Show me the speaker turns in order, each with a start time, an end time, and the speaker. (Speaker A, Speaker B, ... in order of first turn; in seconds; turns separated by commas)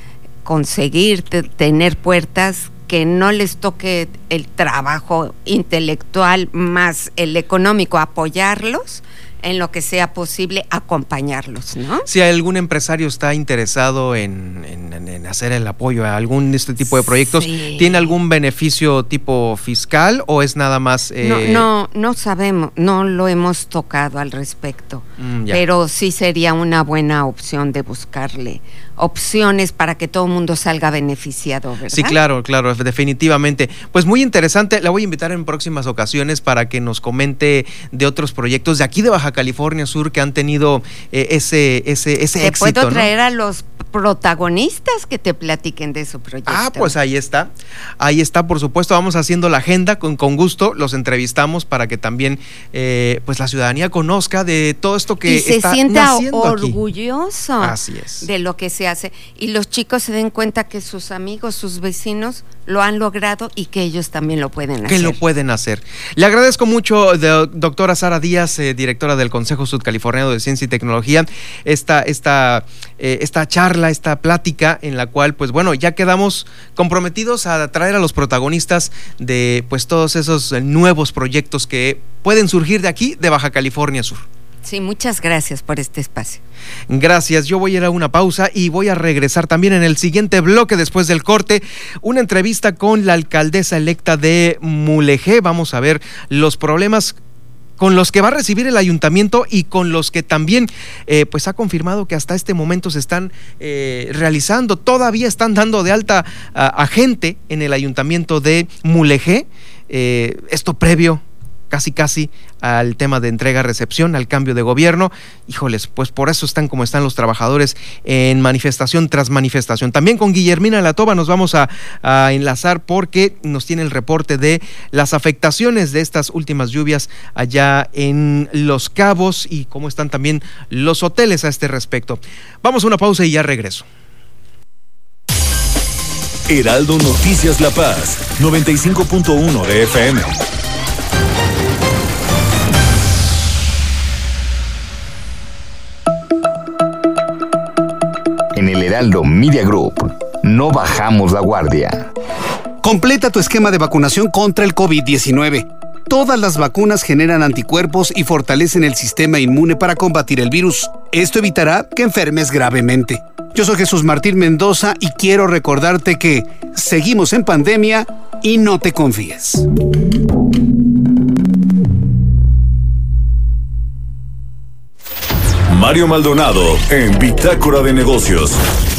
Speaker A: 0.5-12.1, Speaker B: 12.1-21.7, Speaker A: 17.0-18.1, Speaker A: 21.2-32.2, Speaker B: 25.2-25.6, Speaker B: 31.9-43.1, Speaker A: 42.4-46.9, Speaker B: 46.5-56.8, Speaker A: 55.3-65.2, Speaker B: 57.6-58.3, Speaker B: 64.8-84.2, Speaker A: 84.6-86.4, Speaker B: 86.9-97.2, Speaker B: 97.8-133.9, Speaker C: 136.5-140.4, Speaker D: 148.6-152.1, Speaker E: 152.8-169.7, Speaker C: 175.7-178.6